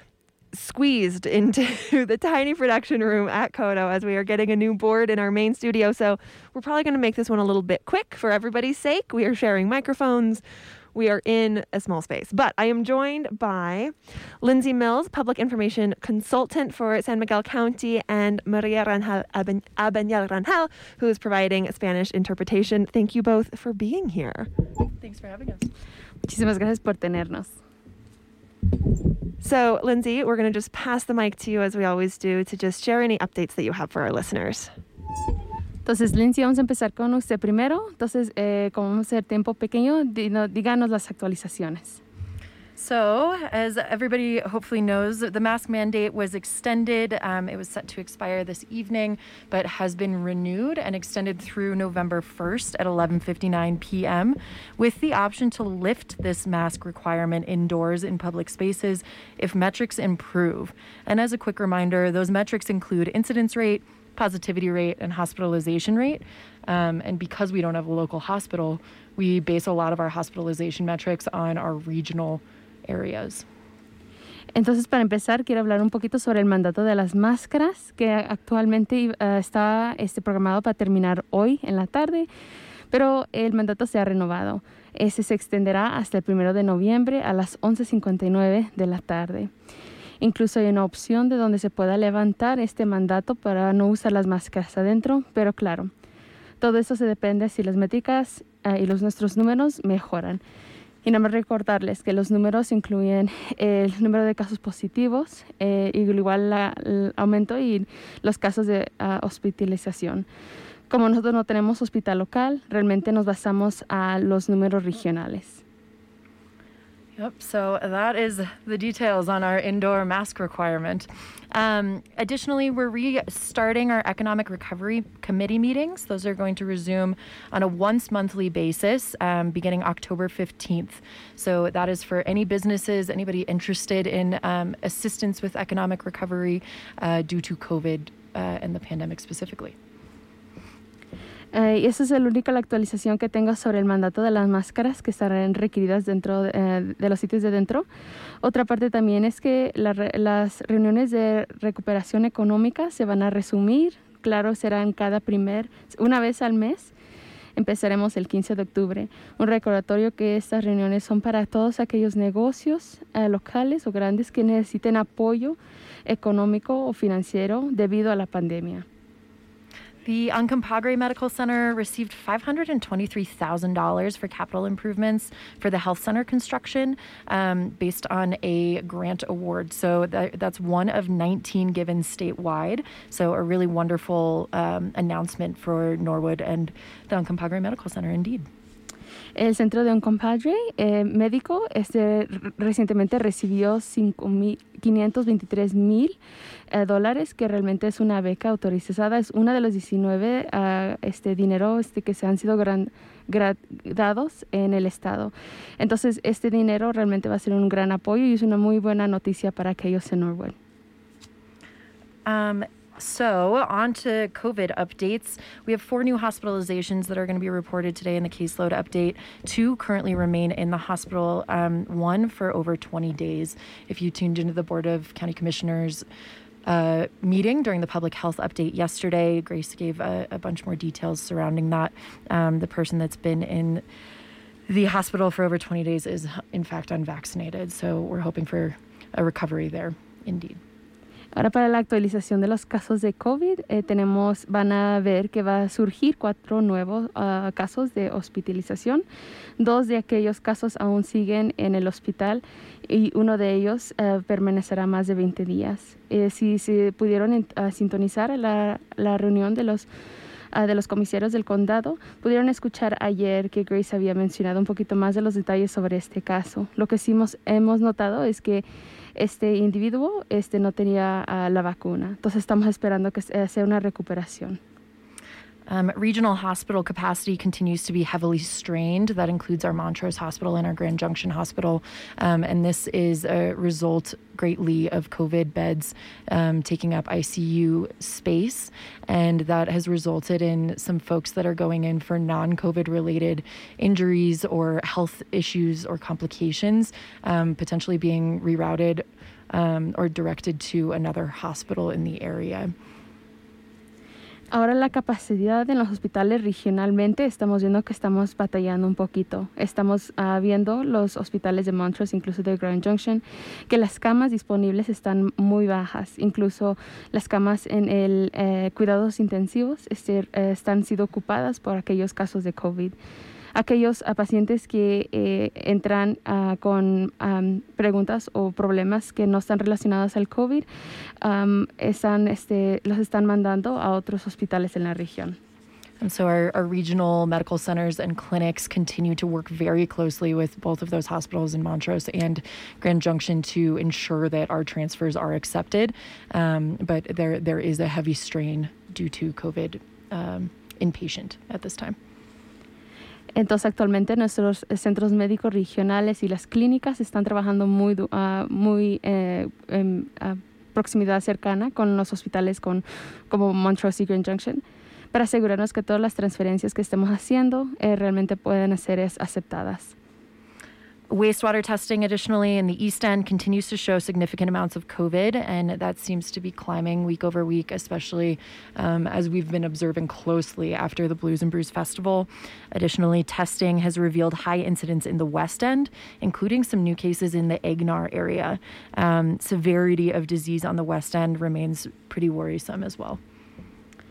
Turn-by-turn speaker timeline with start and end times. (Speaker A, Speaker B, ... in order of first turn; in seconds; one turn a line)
Speaker A: 0.5-10.4
Speaker A: 10.9-24.5
Speaker B: 25.0-25.7
Speaker C: 26.3-27.6
Speaker A: 29.4-34.7
Speaker C: 35.9-42.0
Speaker B: 42.8-73.5
Speaker C: 74.5-82.3
Speaker C: 82.9-89.5
Speaker C: 90.2-95.9
Speaker C: 96.6-100.4
Speaker C: 101.0-110.3
Speaker C: 110.9-115.6
Speaker B: 117.2-139.8
Speaker C: 141.5-147.9
Speaker C: 148.4-156.9
Speaker C: 157.6-168.9
Speaker B: 170.1-188.5
Speaker C: 189.4-196.2
Speaker C: 196.7-210.6
Speaker B: 212.3-226.1
Speaker B: 226.7-233.8
Speaker B: 234.7-240.6
Speaker C: 241.4-249.0
Speaker C: 249.6-259.9
Speaker C: 260.5-268.6
Speaker C: 269.2-274.6
Speaker B: 275.7-302.7
Speaker C: 304.5-322.9
Speaker C: 323.6-330.7
Speaker C: 331.2-335.4
Speaker B: 336.0-352.0
Speaker C: 353.4-369.9
Speaker B: 371.1-393.2